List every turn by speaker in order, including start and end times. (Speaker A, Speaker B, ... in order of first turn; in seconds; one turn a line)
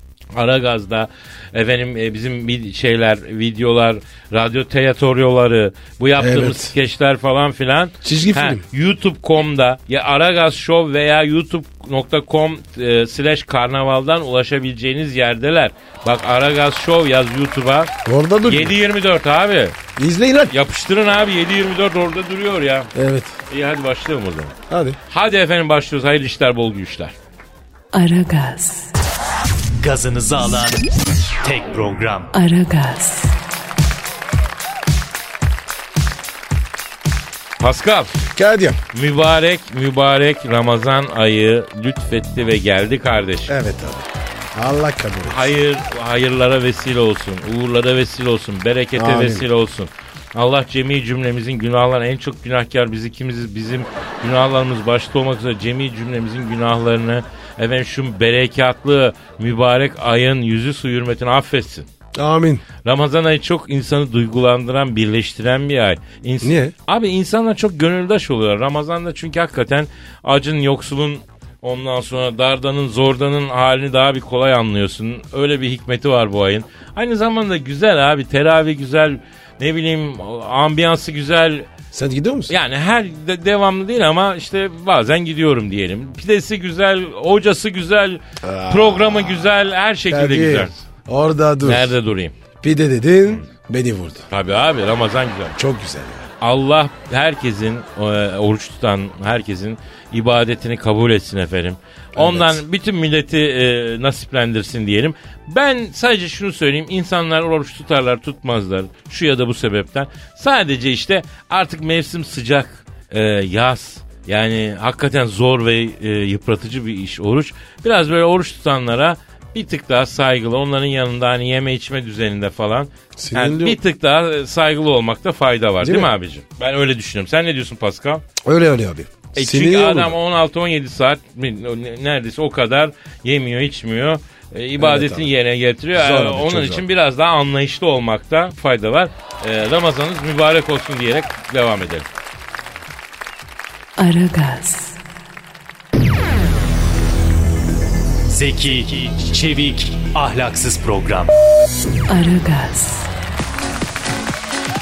Speaker A: 0.3-17.9
Speaker B: 6.2-6.7
Speaker B: 8.0-8.6
Speaker B: 18.0-18.8
Speaker A: 18.4-19.8
Speaker B: 19.9-20.5
Speaker A: 20.5-22.9
Speaker B: 22.9-23.3
Speaker A: 23.5-24.5
Speaker B: 24.7-25.0
Speaker A: 25.1-27.1
Speaker C: 27.9-28.9
Speaker D: 29.8-30.8
Speaker D: 31.4-32.3
Speaker C: 32.3-33.3
Speaker A: 37.6-38.2
Speaker B: 38.3-38.8
Speaker A: 38.9-43.5
Speaker B: 43.5-45.5
Speaker A: 45.2-61.9
Speaker B: 48.9-49.5
Speaker B: 62.1-62.6
Speaker A: 62.8-81.7
Speaker B: 66.4-66.7
Speaker B: 81.9-82.5
Speaker A: 82.5-90.7
Speaker B: 88.4-89.5
Speaker B: 90.1-91.9
Speaker A: 91.6-92.3
Speaker B: 92.6-94.2
Speaker A: 94.3-95.5
Speaker B: 95.5-96.3
Speaker A: 96.4-128.2
Speaker B: 102.2-102.6
Speaker B: 123.2-123.8
Speaker B: 125.8-126.1
Speaker B: 128.4-130.2
Speaker A: 129.3-142.1
Speaker B: 134.8-135.2
Speaker B: 135.9-136.8
Speaker C: 144.0-145.0
Speaker D: 148.3-151.3
Speaker C: 152.1-153.1